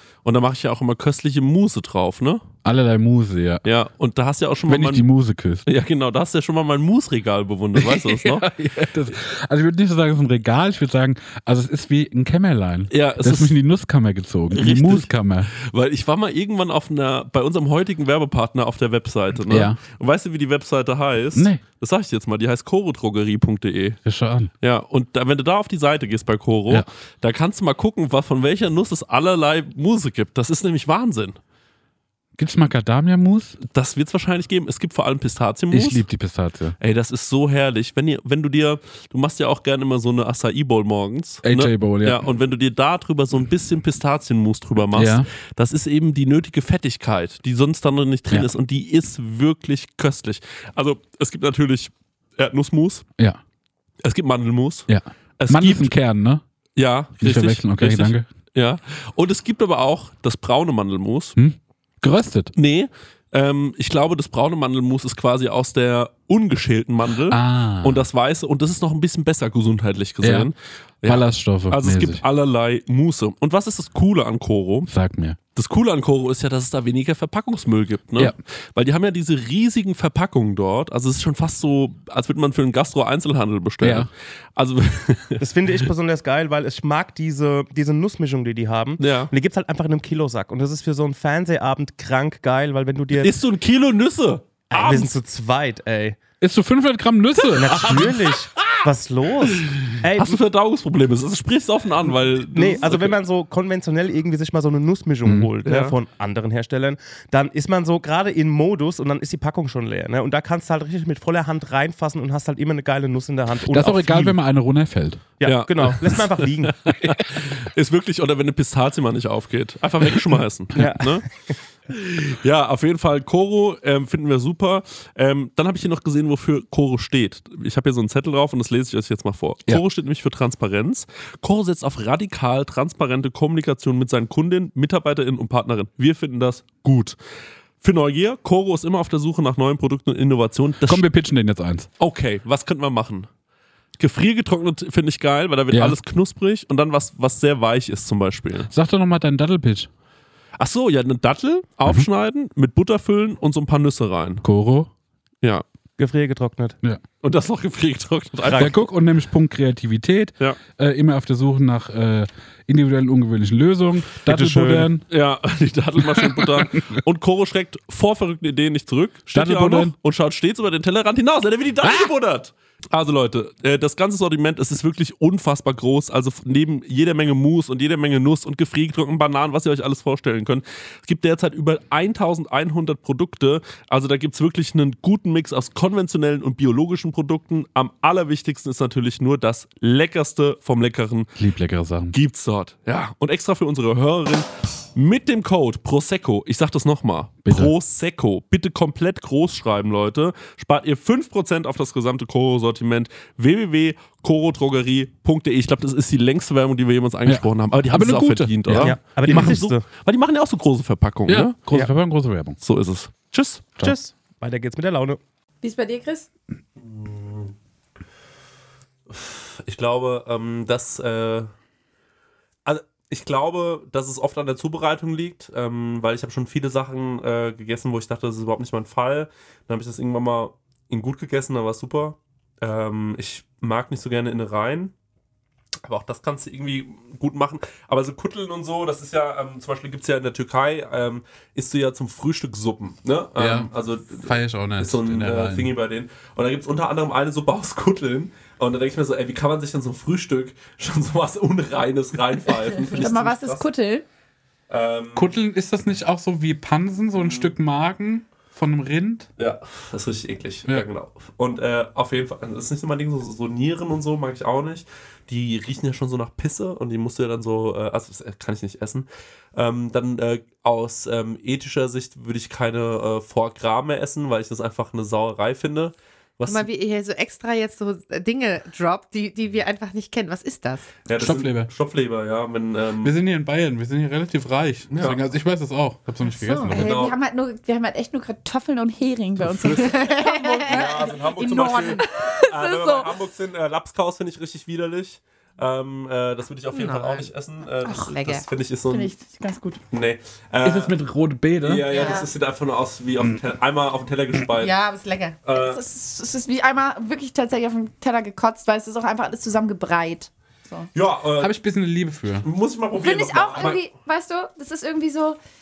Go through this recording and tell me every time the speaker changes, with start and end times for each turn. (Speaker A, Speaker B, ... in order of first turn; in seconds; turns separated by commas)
Speaker A: 0.2-2.5, Speaker B: 2.6-3.6, Speaker A: 3.6-5.1, Speaker B: 4.7-5.7, Speaker A: 5.7-8.9, Speaker B: 7.8-15.5, Speaker A: 12.9-13.6, Speaker A: 14.5-24.0, Speaker B: 19.4-19.8, Speaker B: 21.4-21.6, Speaker B: 24.1-24.5, Speaker A: 24.6-31.4, Speaker B: 32.4-33.6, Speaker A: 33.6-36.1, Speaker B: 35.7-36.8, Speaker A: 36.8-53.1, Speaker B: 41.4-42.2, Speaker B: 44.9-45.3, Speaker A: 54.0-56.0, Speaker B: 54.9-56.4, Speaker A: 56.8-61.3, Speaker B: 57.2-58.2, Speaker B: 61.4-62.5, Speaker A: 62.5-74.9, Speaker B: 67.3-68.0, Speaker B: 70.2-70.5, Speaker B: 71.0-72.2, Speaker B: 74.9-75.4, Speaker A: 75.5-85.4, Speaker B: 83.8-84.1, Speaker C: 85.4-93.4, Speaker A: 89.0-89.3, Speaker A: 93.2-95.1, Speaker C: 94.7-96.2, Speaker B: 96.4-98.2, Speaker C: 97.6-100.4, Speaker A: 97.7-98.0, Speaker A: 100.1-103.2, Speaker C: 102.5-114.4, Speaker B: 105.2-105.5, Speaker A: 105.6-105.9, Speaker B: 113.7-115.4, Speaker C: 115.4-116.8, Speaker A: 115.4-121.2, Speaker C: 120.8-121.5, Speaker A: 121.9-137.2, Speaker A: 137.8-141.1, Speaker B: 140.8-141.9, Speaker A: 142.0-143.3, Speaker A: 144.0-148.7, Speaker B: 145.7-146.0, Speaker B: 148.7-149.9, Speaker A: 150.6-154.4, Speaker B: 154.4-154.9, Speaker C: 156.0-156.8, Speaker A: 157.2-158.8, Speaker C: 158.4-158.7, Speaker B: 158.6-165.1, Speaker A: 164.2-191.3, Speaker B: 166.2-166.9, Speaker B: 169.3-169.9, Speaker B: 191.4-192.1, Speaker A: 192.1-211.7, Speaker B: 197.4-197.7, Speaker B: 207.2-209.6, Speaker C: 208.8-209.8, Speaker B: 211.3-212.6, Speaker A: 212.6-213.7, Speaker C: 213.8-215.2, Speaker D: 215.6-216.3, Speaker A: 216.8-217.5, Speaker A: 219.1-221.5, Speaker A: 222.6-234.9, Speaker A: 235.8-253.7, Speaker B: 243.4-243.7, Speaker B: 244.2-245.7, Speaker D: 252.9-254.0, Speaker A: 254.7-255.3, Speaker B: 255.1-259.3, Speaker A: 259.4-276.7, Speaker E: 276.4-280.9, Speaker A: 281.1-283.1, Speaker B: 281.2-281.7, Speaker B: 283.0-287.0, Speaker A: 284.9-285.2, Speaker E: 286.2-286.8, Speaker A: 286.7-287.2, Speaker D: 286.8-293.1, Speaker A: 289.4-299.1, Speaker E: 289.7-292.0, Speaker E: 296.7-297.3, Speaker E: 297.8-298.4, Speaker D: 298.9-299.8, Speaker A: 299.9-300.9, Speaker B: 300.6-301.9, Speaker A: 301.6-304.7, Speaker E: 301.9-302.3, Speaker E: 304.6-305.4, Speaker A: 305.4-305.8, Speaker D: 305.5-310.9, Speaker A: 310.9-311.5, Speaker B: 311.4-312.5, Speaker A: 312.4-313.8, Speaker D: 313.0-315.4